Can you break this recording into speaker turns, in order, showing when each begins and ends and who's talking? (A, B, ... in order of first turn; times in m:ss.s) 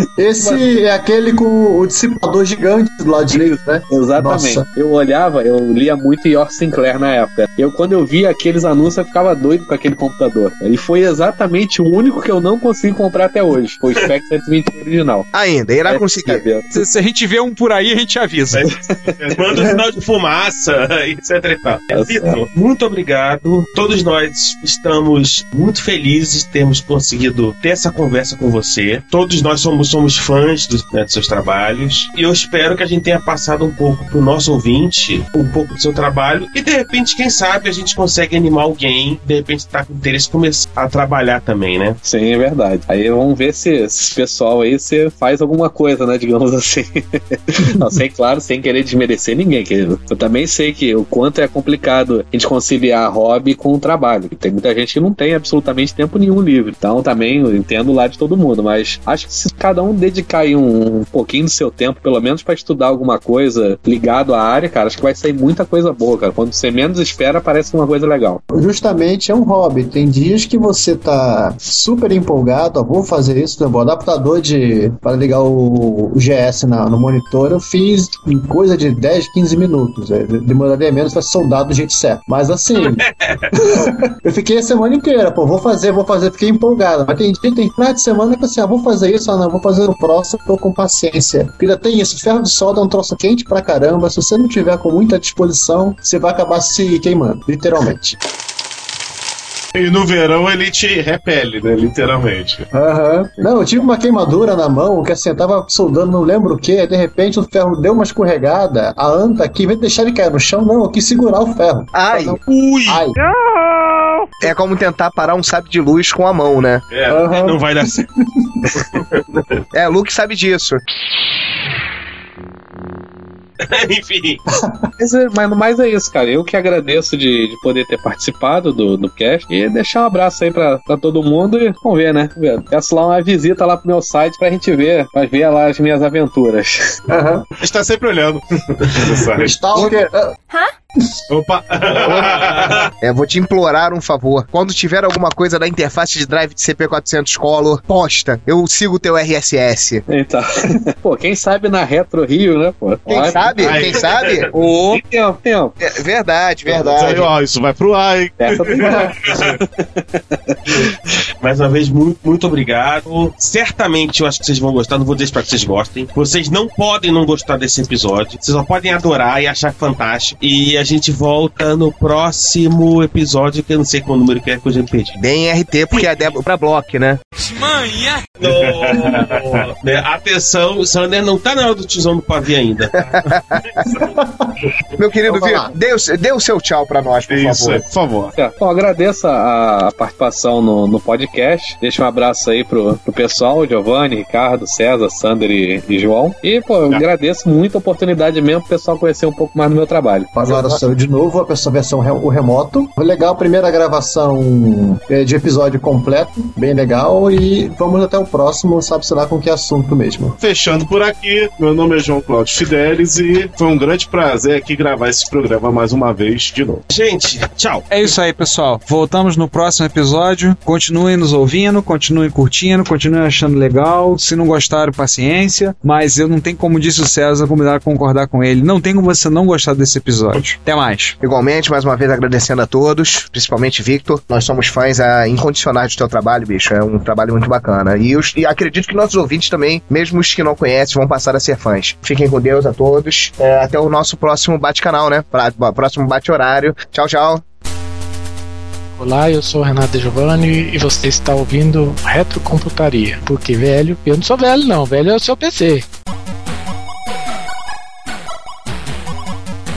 0:00.2-0:04.6 A
0:03.9-0:15.3 B
0:15.3-0:16.4 C
0:15.8-0:16.8 B
0:16.7-0:18.7 D
0:18.5-0:19.5 E
0:19.3-0:42.0 F
0:21.9-0:22.4 B
0:42.0-1:08.4 B
1:08.5-1:23.0 A
1:22.8-1:23.4 F
1:23.6-1:38.2 A
1:39.7-1:42.6 E
1:42.7-1:53.1 A
1:51.9-1:52.4 C
1:52.4-1:53.0 F
1:54.4-1:56.8 C
1:56.9-1:57.2 E
1:57.1-1:58.6 A
1:57.2-1:58.0 F
1:58.9-1:59.4 F
1:59.7-2:00.8 C
2:03.6-2:04.4 F
2:04.5-2:04.8 A
2:05.0-2:16.8 B
2:17.1-2:17.5 A
2:17.6-2:19.6 E
2:19.4-2:20.3 A
2:21.3-2:22.9 E
2:22.1-2:22.8 F
2:23.0-2:30.0 C
2:30.1-2:33.5 B
2:33.1-2:34.5 C
2:33.5-2:34.4 E
2:34.5-2:35.0 D
2:34.9-2:35.8 B
2:35.8-2:37.3 C
2:36.7-2:39.6 E
2:38.4-2:40.9 B
2:41.4-2:55.2 F
2:55.2-2:57.2 C
2:55.9-2:56.3 F
2:57.5-3:03.3 F
2:58.4-2:59.4 E
3:03.2-3:03.6 C
3:03.9-3:04.5 A
3:05.0-3:07.8 C
3:05.3-3:05.7 A
3:07.3-3:08.3 E
3:08.3-3:20.3 B
3:20.4-3:30.4 A
3:20.4-3:20.8 C
3:30.4-3:36.8 E
3:36.9-3:38.1 F
3:37.9-3:51.1 D
3:51.2-4:07.4 C
4:09.0-4:15.8 G